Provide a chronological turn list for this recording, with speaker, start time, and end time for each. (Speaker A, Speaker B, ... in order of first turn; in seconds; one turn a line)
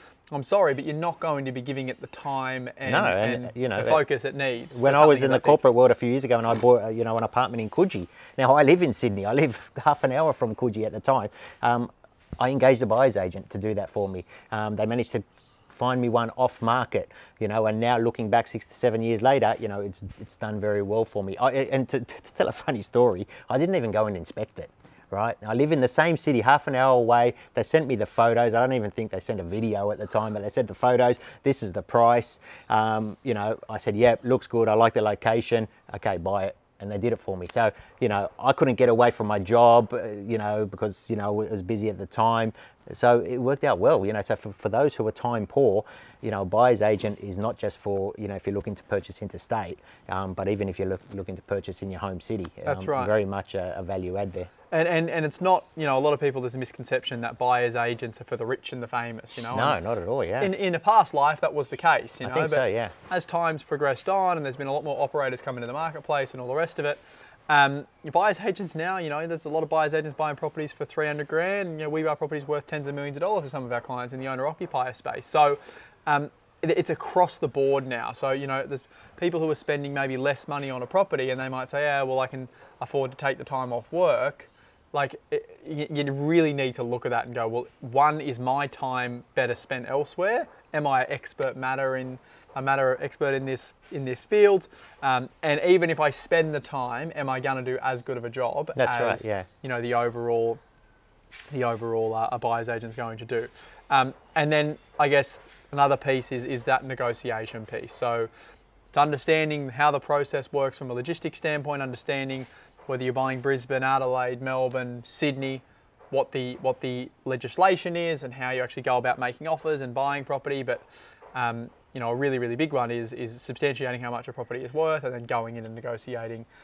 Speaker A: 0.3-5.6
Speaker B: 2.8-4.0
Speaker B: 4.7-54.5
Speaker A: 52.6-53.1
Speaker A: 54.7-59.8
Speaker B: 59.5-60.5
Speaker A: 60.4-100.6
Speaker B: 62.2-62.9
Speaker B: 98.8-99.5
Speaker A: 101.5-108.3
Speaker A: 108.9-120.8
Speaker A: 121.3-126.5